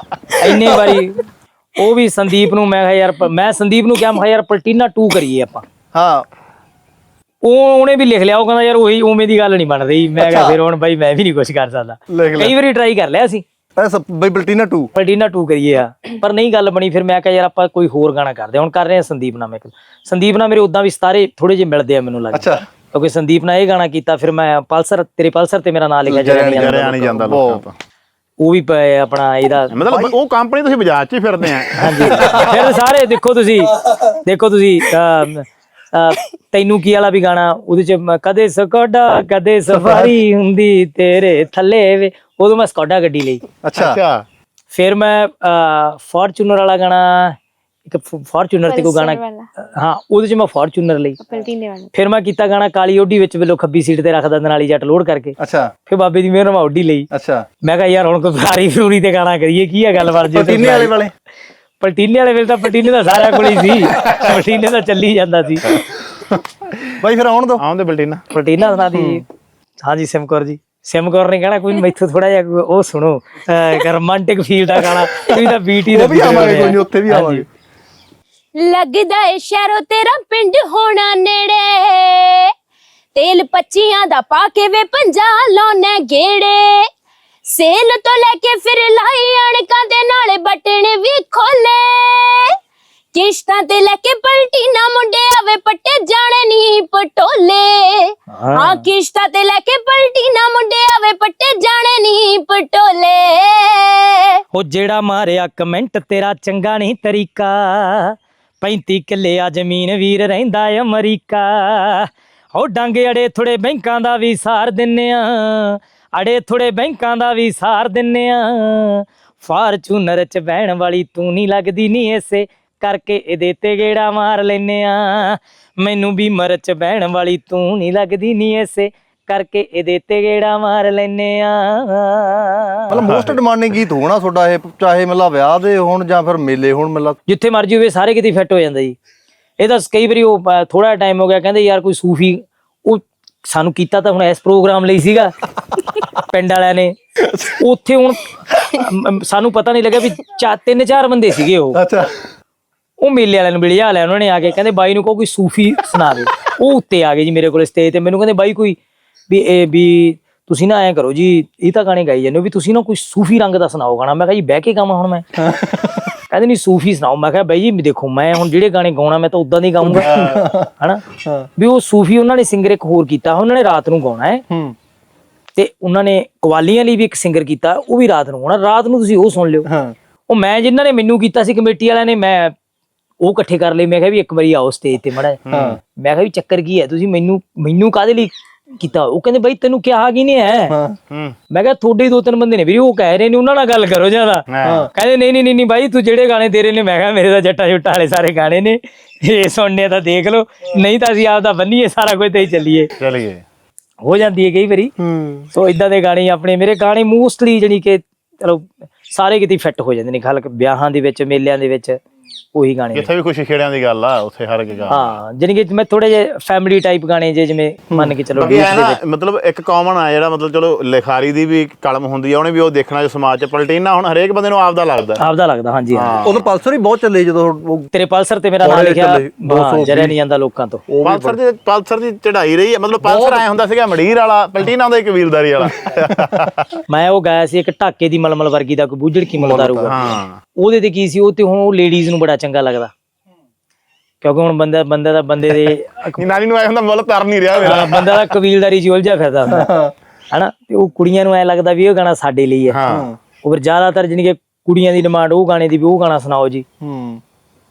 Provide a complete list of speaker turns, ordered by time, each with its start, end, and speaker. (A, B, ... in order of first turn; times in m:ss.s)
0:00.4-0:01.2 A
0:00.5-0:01.0 B
0:01.8-0:05.6 A
0:05.9-0:06.3 B
0:07.4-0:13.4 A
0:10.2-0:10.6 B
0:12.1-0:12.6 B
0:13.8-0:14.9 B
0:14.9-0:26.9 A
0:22.3-0:22.6 B
0:26.1-0:27.6 B
0:26.6-0:27.7 C
0:28.4-0:29.8 A
0:29.7-0:32.6 C
0:31.8-0:43.4 A
0:31.9-0:32.5 B
0:39.7-0:40.1 B
0:43.6-0:44.0 B
0:43.8-0:44.2 C
0:44.7-0:51.2 A
0:48.7-0:49.5 D
0:51.2-0:51.9 D
0:51.9-0:55.4 A
0:55.4-0:55.7 B
0:55.9-0:57.1 A
0:57.1-0:57.4 B
0:57.6-1:01.0 A
1:00.1-1:01.1 B
1:01.8-1:05.7 A
1:04.0-1:04.4 C
1:05.8-1:07.6 B
1:07.6-1:08.4 C
1:08.3-1:09.2 A
1:08.9-1:09.2 B
1:09.8-1:17.4 A
1:15.8-1:17.5 B
1:18.6-1:22.5 D
1:23.2-1:26.9 D
1:27.5-1:32.6 D
1:33.1-1:44.4 D
1:38.3-1:38.9 A
1:44.5-2:13.0 A
2:12.9-2:17.2 B
2:13.0-2:13.4 C
2:17.3-2:19.0 A
2:19.6-2:25.3 A
2:26.2-2:31.8 A
2:31.7-2:32.1 B
2:33.0-2:38.8 A
2:39.3-2:45.3 A
2:45.4-2:46.1 B
2:46.3-2:51.1 A
2:49.8-2:50.7 B
2:50.0-2:50.4 C
2:51.2-2:51.5 B
2:51.6-2:54.4 A
2:54.5-2:54.8 B
2:55.6-2:59.7 A
2:59.7-3:00.0 B
3:00.3-3:02.5 A
3:03.2-3:10.8 A
3:05.5-3:05.8 C
3:05.5-3:05.8 B
3:10.7-3:11.0 B
3:11.1-3:11.4 C
3:11.5-3:22.9 A
3:14.5-3:14.9 C
3:14.6-3:14.9 B
3:23.0-3:23.4 C
3:24.0-3:24.9 A
3:25.0-3:25.5 B
3:25.5-3:32.0 A
3:32.5-3:33.1 A
3:32.9-3:35.2 C
3:34.9-3:39.0 A
3:37.9-3:38.6 B
3:38.4-3:45.2 C
3:45.2-3:46.2 A
3:45.9-3:46.4 C
3:46.2-3:47.9 B
3:47.9-3:50.8 A
3:48.6-3:50.2 B
3:50.9-3:51.4 B
3:51.0-3:56.7 C
3:53.0-3:53.5 B
3:56.9-4:02.9 A
3:59.3-4:00.0 B
3:59.9-4:00.4 C
4:04.2-4:06.2 A
4:06.2-4:08.3 C
4:07.6-4:09.7 A
4:09.5-4:09.9 B
4:10.3-4:12.8 A
4:12.7-4:13.1 C
4:12.9-4:13.2 B
4:13.4-4:16.6 A
4:16.8-4:17.2 B